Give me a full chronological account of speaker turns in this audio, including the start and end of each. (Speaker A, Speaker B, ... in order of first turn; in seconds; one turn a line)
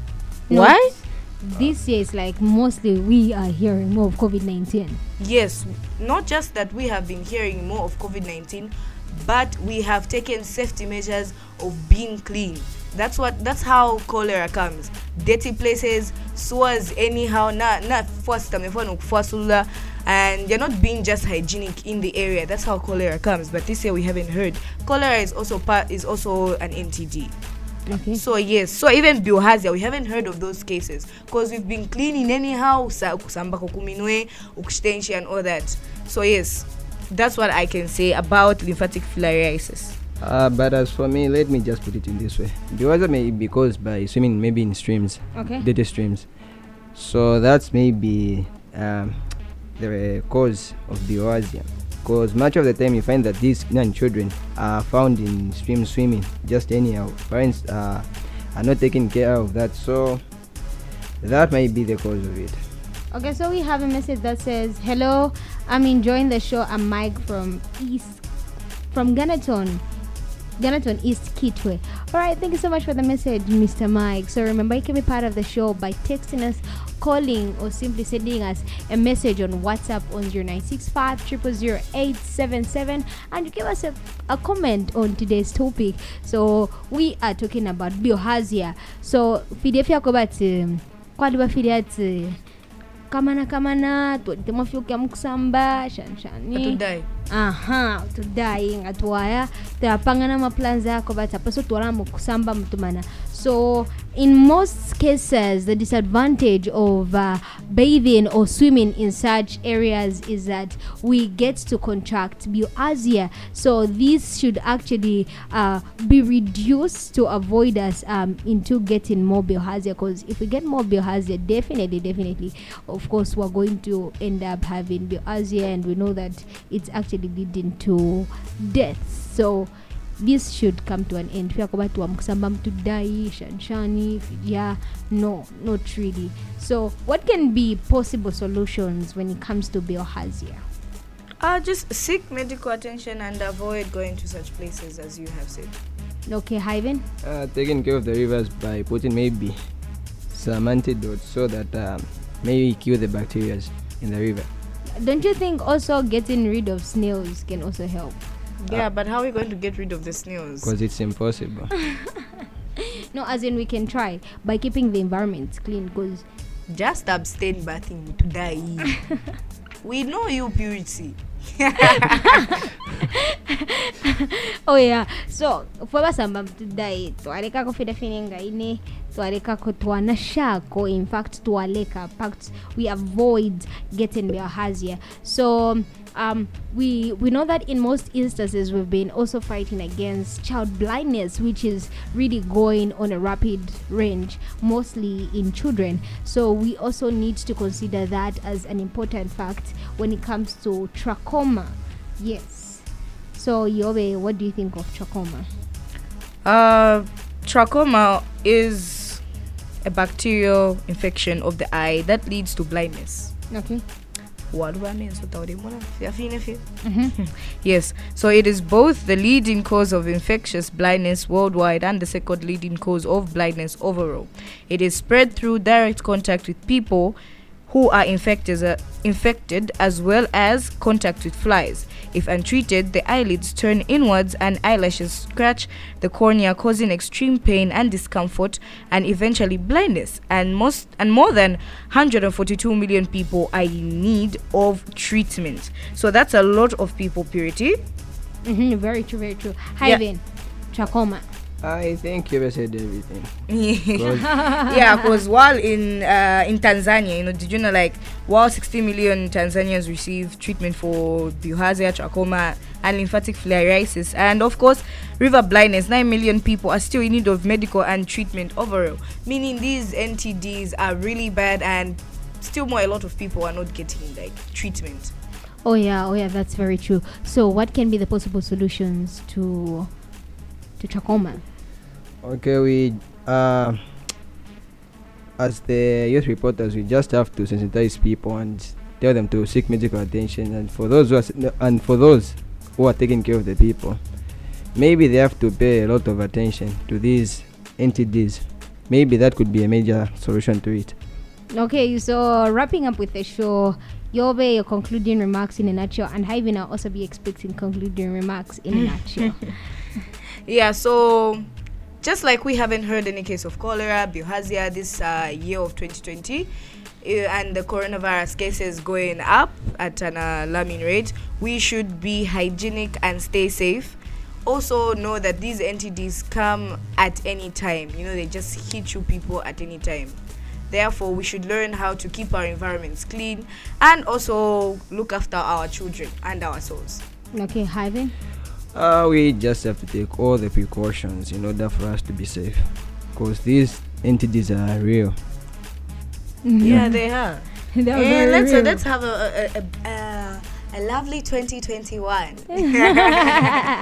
Speaker A: 0.5-5.0
Speaker B: 0.5-1.1
Speaker B: 5.2-27.3
Speaker A: 27.9-28.2
Speaker B: 28.1-40.0
Speaker C: 40.2-46.4
Speaker A: 45.4-45.6
Speaker C: 46.9-60.2
Speaker C: 61.2-62.6
Speaker A: 63.1-68.2
Speaker A: 68.9-69.8
Speaker A: 70.6-92.4
Speaker A: 93.1-140.6
Speaker B: 96.5-97.1
Speaker B: 141.4-145.7
Speaker A: 146.3-147.1
Speaker C: 147.2-149.6
Speaker C: 150.3-154.5
Speaker A: 155.0-158.2
Speaker B: 158.6-160.7
Speaker C: 160.6-161.7
Speaker A: 163.1-166.2
Speaker B: 166.7-169.1
Speaker B: 169.8-172.4
Speaker A: 173.1-205.5
Speaker B: 206.4-209.2
Speaker B: 209.8-213.3
Speaker A: 213.5-213.8
Speaker B: 214.5-227.2
Speaker A: 216.8-217.1
Speaker B: 227.7-247.8
Speaker A: 248.4-251.3
Speaker C: 251.6-254.5
Speaker B: 253.5-275.1
Speaker A: 275.6-279.9
Speaker A: 280.8-281.4
Speaker C: 282.2-283.8
Speaker C: 285.4-294.1
Speaker C: 294.7-300.9
Speaker A: 301.5-309.5
Speaker B: 308.8-309.5
Speaker B: 310.5-311.5
Speaker B: 312.0-316.5
Speaker B: 317.0-330.2
Speaker B: 330.7-337.0
Speaker A: 337.3-338.1
Speaker C: 338.7-345.2
Speaker A: 346.4-347.0
Speaker B: 346.6-353.5
Speaker C: 346.6-346.9
Speaker A: 347.7-348.8
Speaker A: 352.5-353.6